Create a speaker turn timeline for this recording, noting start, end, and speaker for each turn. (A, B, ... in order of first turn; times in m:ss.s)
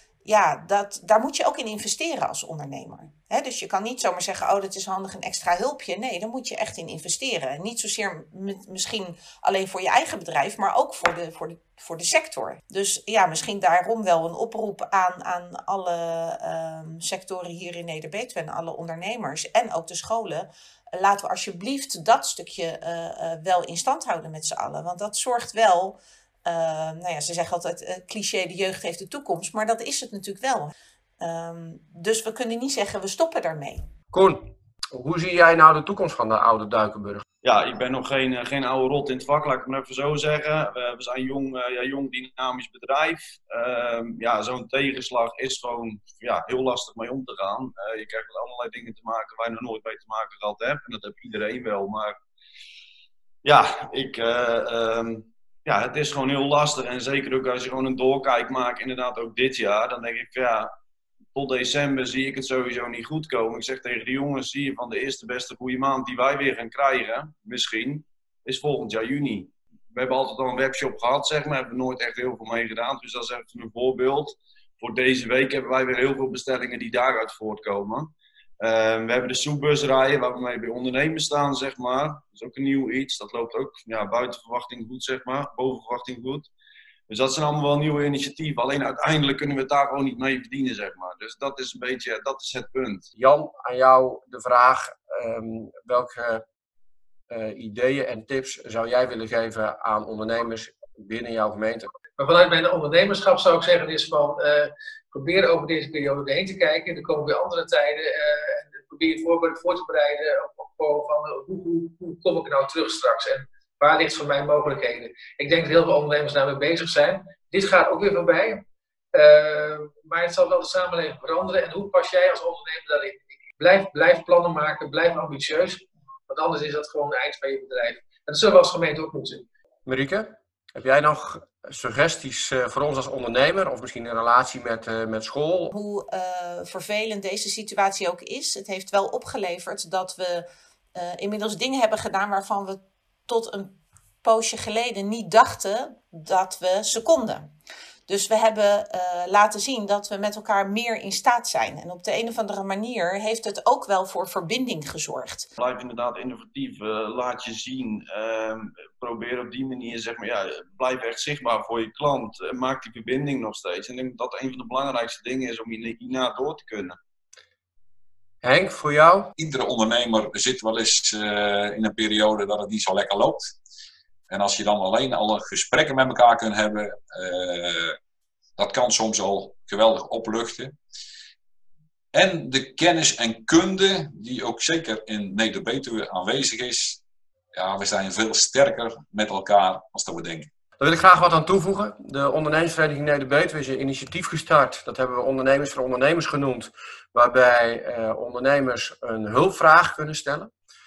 0:00.2-0:33.9 A
0:34.1-0:37.2 B
0:37.4-0:52.1 C
0:53.4-1:00.7 C
1:01.4-1:26.5 C
1:27.1-1:33.0 C
1:33.2-1:36.4 B
1:37.3-1:41.9 B
1:42.2-2:09.4 D
2:09.9-2:15.7 B
2:15.7-2:27.5 A
2:28.1-2:35.5 A
2:35.6-2:47.0 C
2:48.4-2:49.3 B
2:49.4-2:53.6 E
2:54.3-2:58.0 E
2:58.6-3:00.7 E
3:02.1-3:07.0 E
3:07.5-3:10.5 E
3:10.8-3:20.5 B